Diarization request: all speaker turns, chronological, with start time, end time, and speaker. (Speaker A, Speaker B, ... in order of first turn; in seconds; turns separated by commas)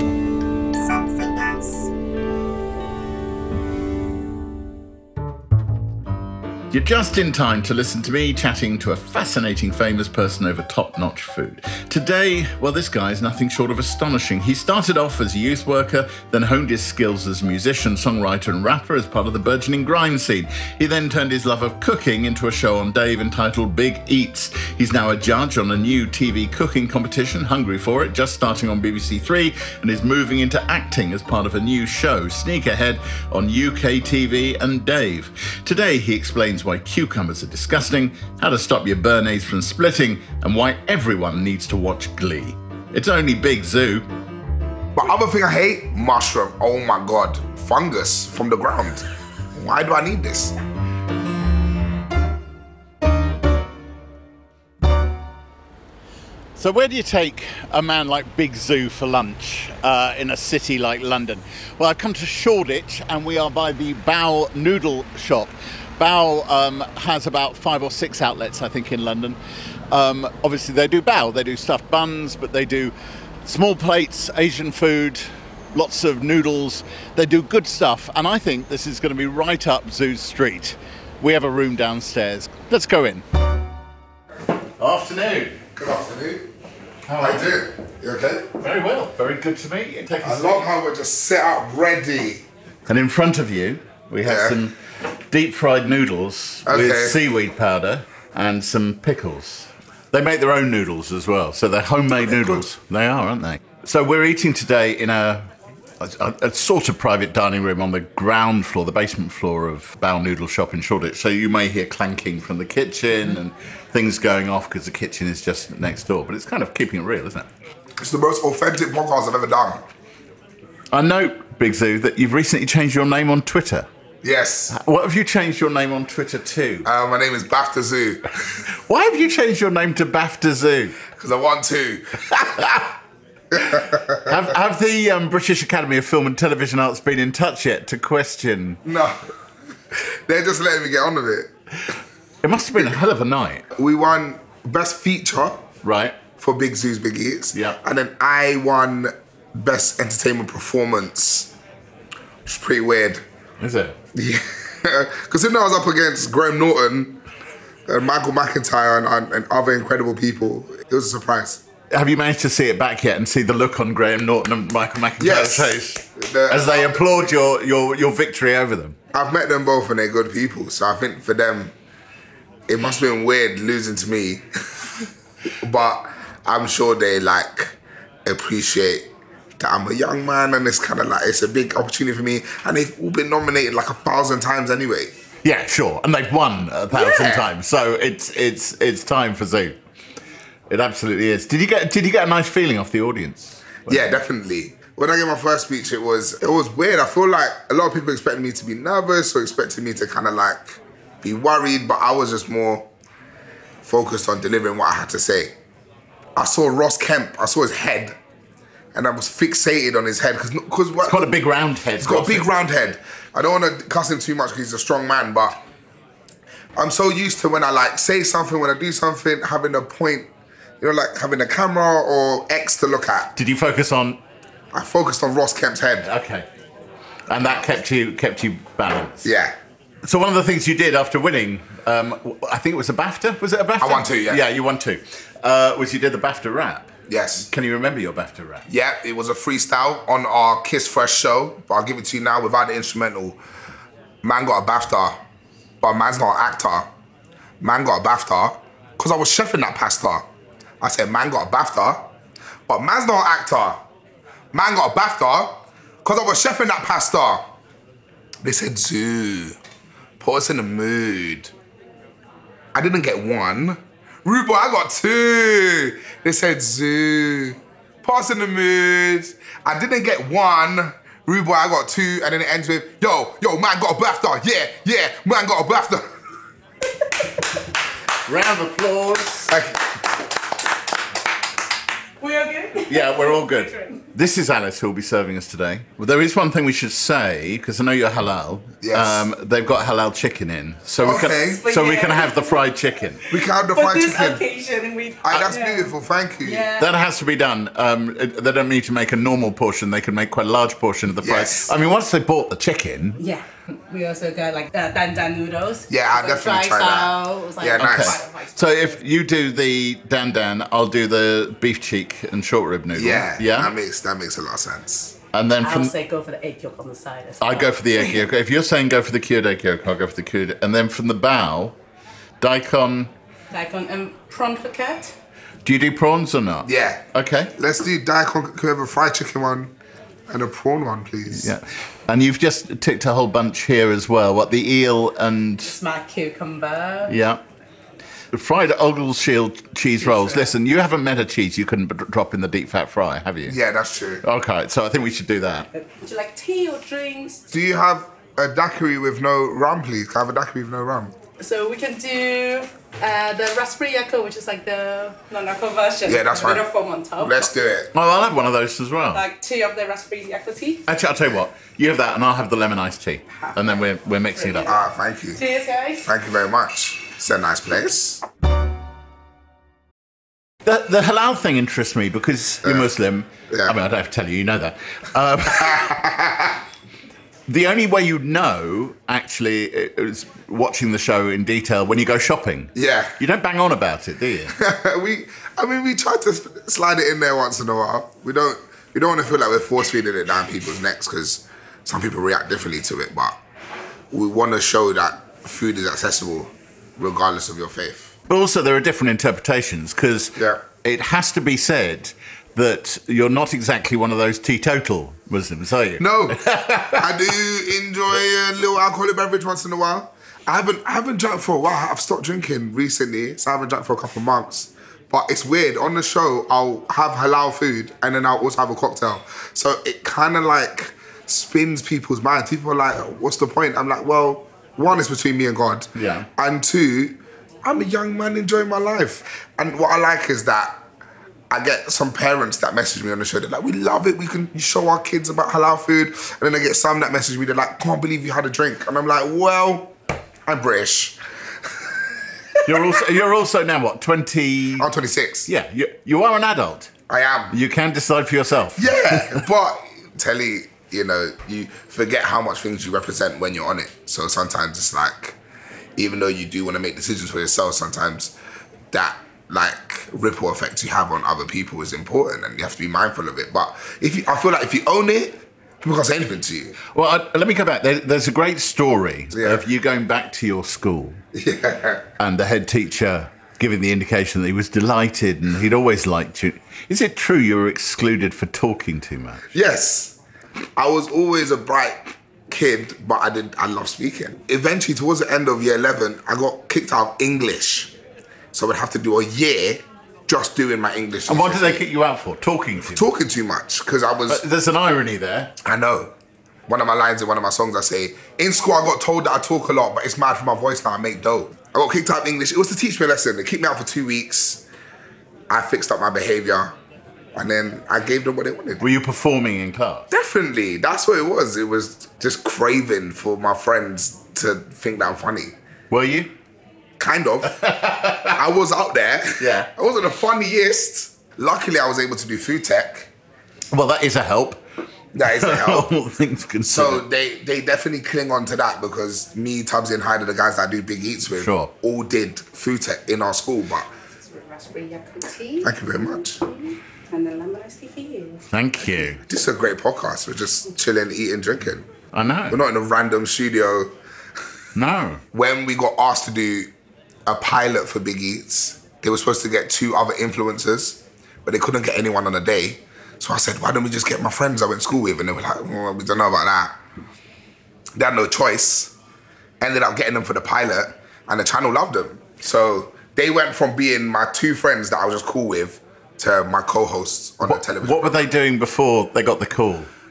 Speaker A: 6.7-44.1, Speaker B: 44.9-50.5, Speaker A: 56.5-69.4, Speaker A: 69.9-72.9, Speaker A: 73.4-83.2, Speaker A: 84.8-85.6, Speaker B: 85.7-86.5, Speaker A: 87.1-87.5, Speaker B: 87.2-88.5, Speaker A: 88.6-90.7, Speaker B: 90.2-92.5, Speaker A: 92.9-94.8, Speaker B: 94.2-94.6, Speaker A: 95.3-105.5, Speaker B: 96.7-97.2, Speaker A: 106.0-117.5, Speaker B: 118.0-119.8, Speaker A: 120.9-123.9, Speaker B: 124.2-124.8, Speaker A: 124.7-126.9, Speaker B: 126.8-128.3, Speaker A: 128.9-131.0, Speaker B: 131.1-132.6, Speaker A: 132.3-132.9, Speaker B: 133.5-134.3, Speaker A: 134.2-138.8, Speaker B: 138.8-139.2, Speaker B: 139.9-141.5, Speaker A: 142.4-143.6, Speaker B: 143.7-145.6, Speaker A: 145.8-146.2, Speaker B: 146.4-151.5, Speaker B: 152.4-153.2, Speaker A: 153.6-153.9, Speaker B: 154.1-157.2, Speaker B: 157.9-161.6, Speaker A: 161.9-168.9, Speaker B: 165.2-167.3, Speaker B: 169.1-171.7, Speaker B: 172.7-175.0, Speaker B: 175.6-179.1, Speaker B: 179.6-185.1, Speaker A: 185.4-189.8, Speaker B: 186.9-187.5, Speaker A: 190.7-194.1, Speaker B: 193.9-202.9, Speaker B: 203.8-205.5, Speaker B: 206.3-208.2, Speaker B: 208.9-211.3, Speaker A: 211.0-212.5, Speaker B: 212.0-215.6, Speaker B: 216.8-220.3, Speaker B: 220.8-223.3, Speaker A: 223.3-224.2, Speaker B: 224.7-226.1, Speaker A: 226.0-226.5, Speaker A: 227.3-229.3, Speaker B: 229.2-229.6, Speaker A: 230.0-236.9, Speaker B: 233.8-234.4, Speaker B: 237.1-237.5, Speaker A: 237.5-238.7, Speaker B: 238.7-243.4, Speaker B: 244.2-245.2, Speaker B: 245.8-246.9, Speaker B: 247.6-250.2, Speaker B: 250.8-252.1, Speaker B: 252.7-253.8, Speaker B: 254.5-257.5, Speaker B: 258.4-259.6, Speaker B: 260.2-261.5, Speaker B: 262.7-276.1, Speaker A: 278.2-279.6, Speaker B: 279.5-279.8, Speaker C: 282.2-284.0, Speaker A: 282.9-293.2, Speaker B: 288.8-289.3, Speaker B: 291.0-291.6, Speaker C: 291.4-292.6, Speaker B: 293.3-294.4, Speaker C: 293.3-295.9, Speaker B: 295.2-296.7, Speaker C: 296.4-296.9, Speaker A: 296.8-303.2, Speaker B: 301.2-301.7, Speaker C: 303.2-309.0, Speaker B: 305.9-308.2, Speaker A: 307.8-313.7, Speaker B: 312.9-315.1, Speaker A: 315.3-315.9, Speaker C: 315.6-318.1, Speaker A: 317.4-321.7, Speaker A: 322.4-323.1, Speaker C: 323.5-325.1, Speaker A: 325.6-327.5, Speaker B: 326.6-327.0, Speaker B: 327.5-329.7, Speaker B: 330.3-331.5, Speaker A: 331.3-335.8, Speaker C: 335.6-337.2, Speaker A: 337.1-337.4, Speaker A: 338.3-343.6, Speaker C: 340.0-340.5, Speaker B: 343.5-344.2, Speaker A: 344.2-345.7, Speaker C: 345.7-347.4, Speaker B: 347.5-351.1, Speaker C: 351.4-357.4, Speaker B: 356.0-356.6, Speaker B: 357.2-357.9, Speaker A: 357.9-359.2, Speaker C: 359.1-360.8, Speaker A: 360.9-364.7, Speaker C: 363.4-363.8, Speaker C: 364.3-364.7, Speaker B: 364.6-365.4, Speaker C: 365.4-366.1, Speaker B: 366.0-368.2, Speaker A: 370.6-375.9, Speaker B: 372.6-372.9, Speaker B: 373.5-373.7, Speaker B: 375.5-376.6, Speaker A: 377.5-384.6, Speaker B: 382.7-383.1, Speaker B: 384.5-393.4, Speaker B: 394.1-398.1, Speaker A: 398.3-407.2, Speaker B: 400.4-400.6, Speaker B: 406.0-430.8, Speaker A: 425.9-426.3, Speaker B: 431.5-439.9, Speaker B: 440.4-441.2, Speaker B: 442.5-442.9, Speaker A: 442.6-444.9, Speaker B: 444.8-445.5, Speaker A: 445.5-446.9, Speaker B: 447.1-447.5, Speaker A: 447.5-449.4, Speaker B: 448.8-455.4, Speaker B: 455.9-458.3, Speaker B: 458.9-466.7, Speaker A: 466.9-471.2, Speaker B: 469.3-469.6, Speaker B: 471.3-472.0, Speaker A: 472.2-479.6, Speaker B: 479.5-480.2, Speaker B: 480.8-487.9, Speaker B: 488.5-491.8, Speaker A: 491.3-493.1, Speaker B: 492.8-494.4, Speaker A: 494.3-495.5, Speaker B: 495.6-496.1, Speaker B: 496.7-504.6, Speaker B: 505.5-506.7, Speaker B: 507.3-508.8, Speaker A: 508.8-510.1, Speaker B: 510.1-515.5, Speaker A: 515.9-516.3, Speaker B: 517.0-517.6, Speaker A: 517.6-518.4, Speaker B: 518.2-523.1, Speaker A: 519.4-519.7, Speaker A: 523.7-524.6, Speaker B: 525.1-525.9, Speaker A: 525.3-527.0, Speaker B: 526.6-533.9, Speaker A: 531.3-531.7, Speaker C: 534.2-538.4, Speaker B: 535.6-536.4, Speaker A: 538.5-539.2, Speaker B: 539.3-541.9, Speaker A: 542.1-542.6, Speaker B: 542.5-543.9, Speaker A: 544.7-545.2, Speaker B: 545.3-546.7, Speaker B: 547.2-556.7, Speaker B: 557.9-558.9, Speaker B: 559.6-568.1, Speaker A: 567.4-569.9